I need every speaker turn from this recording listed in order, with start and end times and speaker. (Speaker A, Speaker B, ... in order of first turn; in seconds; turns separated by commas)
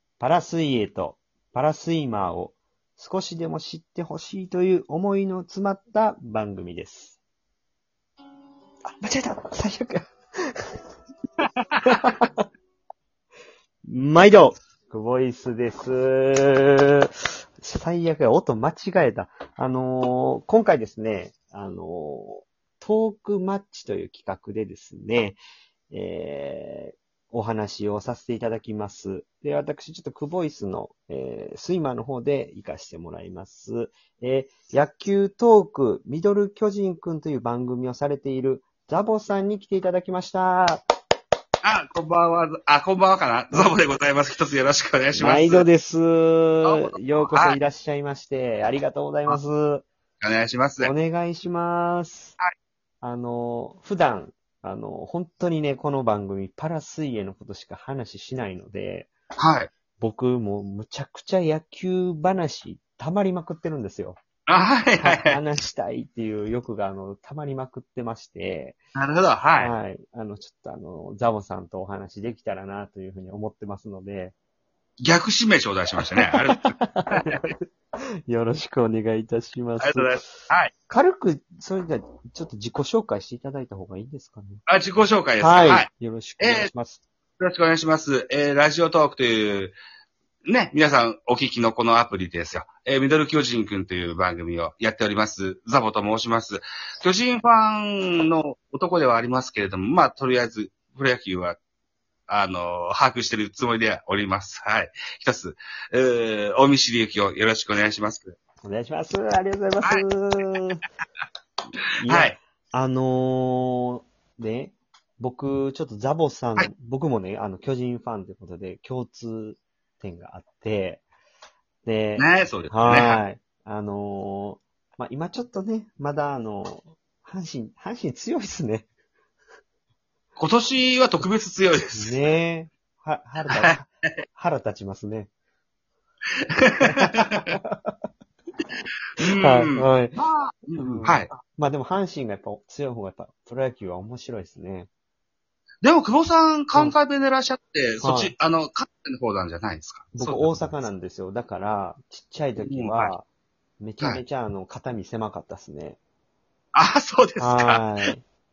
Speaker A: 0.2-7.2, Speaker A: 9.0-10.6, Speaker A: 11.8-12.4, Speaker A: 13.8-25.4, Speaker A: 25.9-40.8, Speaker B: 41.6-45.6, Speaker A: 45.1-49.9, Speaker B: 46.6-47.6, Speaker B: 50.2-50.9, Speaker A: 50.8-52.4, Speaker A: 53.0-59.1, Speaker B: 59.4-59.7, Speaker A: 60.0-64.2, Speaker B: 64.5-65.4, Speaker A: 65.0-68.8, Speaker B: 68.9-69.7, Speaker A: 69.6-74.3, Speaker B: 75.0-77.3, Speaker A: 76.5-77.6, Speaker A: 78.3-84.6, Speaker B: 79.8-80.7, Speaker B: 84.7-85.9, Speaker A: 85.4-87.0, Speaker B: 86.4-86.7, Speaker B: 87.4-89.7, Speaker B: 90.4-101.6, Speaker B: 102.3-108.3, Speaker A: 108.6-110.8, Speaker B: 109.8-110.6, Speaker A: 112.0-121.0, Speaker B: 112.1-112.3, Speaker A: 121.8-128.9, Speaker B: 122.2-123.2, Speaker B: 130.4-132.2, Speaker A: 131.9-135.3, Speaker B: 133.5-134.2, Speaker B: 136.5-137.5, Speaker A: 136.8-137.9, Speaker B: 139.2-141.3, Speaker A: 139.2-140.2, Speaker A: 140.8-144.9, Speaker B: 145.8-150.8, Speaker A: 148.0-148.3, Speaker A: 150.1-153.2, Speaker B: 152.6-153.1, Speaker A: 153.8-156.0, Speaker B: 156.7-157.8, Speaker A: 157.4-158.2